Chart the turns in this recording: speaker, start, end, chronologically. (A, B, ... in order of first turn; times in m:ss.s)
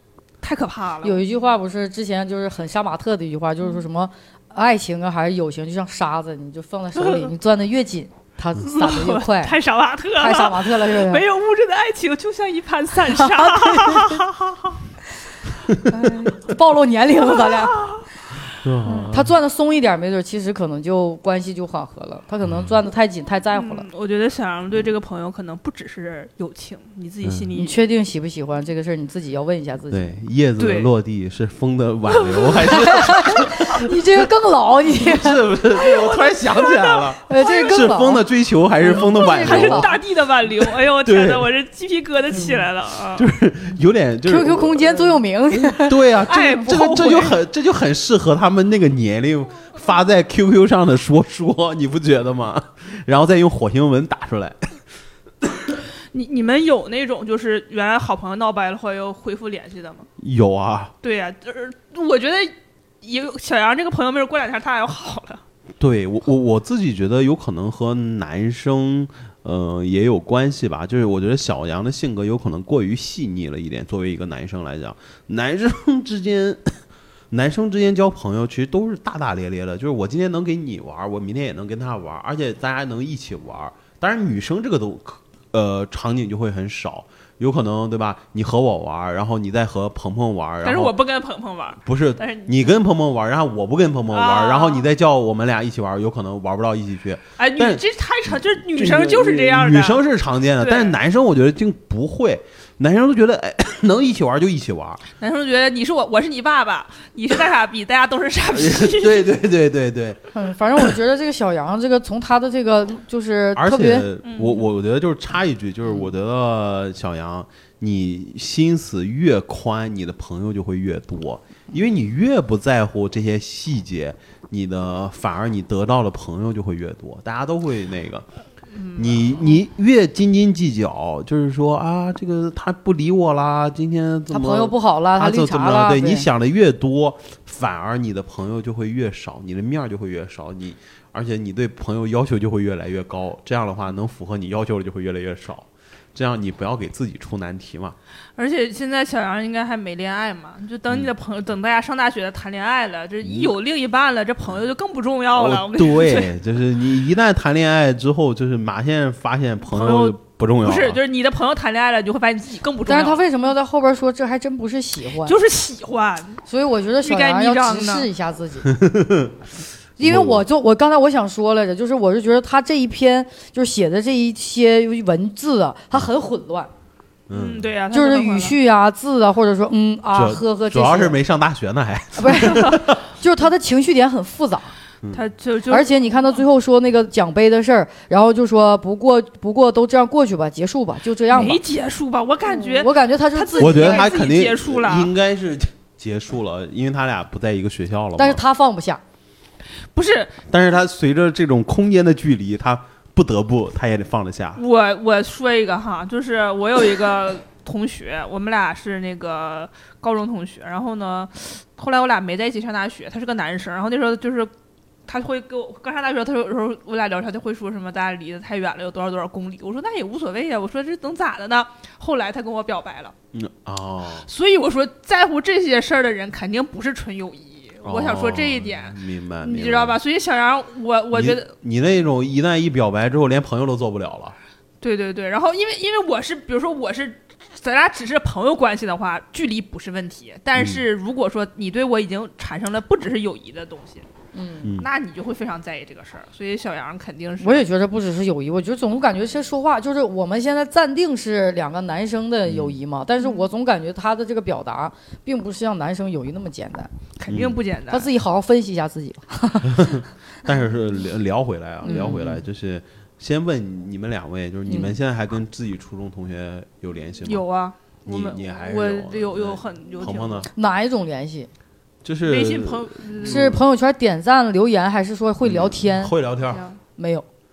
0:00.4-0:01.2 A
0:01.0-0:09.6 B
0:07.0-0:07.3 A
0:08.8-0:14.8 A
0:10.2-0:11.2 B
0:13.2-0:14.2 B
0:15.8-0:17.9 B
0:17.4-0:18.0 A
0:18.6-0:19.4 C
0:18.9-0:23.9 B
0:23.5-0:27.8 A
0:27.2-0:27.5 C
0:27.6-0:30.2 B
0:29.9-0:34.0 C
0:30.6-0:30.9 A
0:32.1-0:32.7 A
0:32.7-0:35.4 B
0:34.9-0:40.0 C
0:35.7-0:37.9 A
0:37.3-0:38.2 B
0:38.8-0:39.9 B
0:38.9-0:43.3 A
0:40.6-0:41.5 C
0:43.1-0:54.8 C
0:44.2-0:46.5 B
0:46.2-0:47.4 A
0:56.1-1:00.1 A
1:00.2-1:00.9 C
1:01.0-1:05.4 A
1:05.8-1:16.7 C
1:17.3-1:30.9 C
1:30.6-1:32.7 A
1:31.8-1:45.0 C
1:34.1-1:34.9 A
1:37.4-1:40.1 A
1:40.6-1:41.0 A
1:45.2-1:49.3 A
1:48.5-1:50.2 C
1:50.3-1:54.1 B
1:53.6-2:08.2 C
1:54.2-1:54.6 A
2:08.7-2:09.6 A
2:08.9-2:28.0 C
2:14.3-2:16.3 B
2:28.4-2:36.3 A
2:33.2-2:33.5 C
2:35.4-2:41.0 C
2:39.7-2:43.2 A
2:42.9-2:45.4 B
2:45.2-2:46.4 A
2:46.5-2:48.7 B
2:47.0-2:48.1 A
2:48.6-2:49.4 C
2:50.0-2:50.4 C
2:50.0-2:56.7 B
2:57.3-2:57.7 C
2:57.3-2:58.6 A
2:57.9-3:01.2 B
3:00.1-3:03.0 C
3:02.2-3:04.7 B
3:05.1-3:05.9 A
3:05.7-3:11.6 B
3:11.3-3:15.1 A
3:12.5-3:14.1 B
3:13.6-3:18.4 C
3:18.2-3:19.0 B
3:19.9-3:20.4 A
3:20.5-3:24.6 C
3:24.6-3:34.5 A
3:35.1-3:43.1 A
3:43.3-3:44.3 C
3:44.3-3:51.5 A
3:47.8-3:50.0 C
3:51.1-3:54.4 C
3:54.8-4:04.1 A
4:00.6-4:00.8 C
4:04.3-4:04.7 B
4:04.6-4:04.9 C
4:04.8-4:07.7 A
4:07.4-4:16.9 B
4:12.5-4:12.8 C
4:13.2-4:13.5 A
4:17.2-4:18.1 A
4:17.3-4:17.6 C
4:17.9-4:19.8 B
4:19.6-4:27.4 C
4:21.8-4:22.4 B
4:21.9-4:22.1 A
4:24.7-4:24.9 B
4:27.2-4:30.5 A
4:28.1-4:30.5 C
4:30.6-4:31.5 B
4:32.0-4:33.6 C
4:32.2-4:33.6 A
4:33.2-4:36.1 B
4:35.4-4:36.6 C
4:36.5-4:36.8 A
4:37.0-4:37.3 B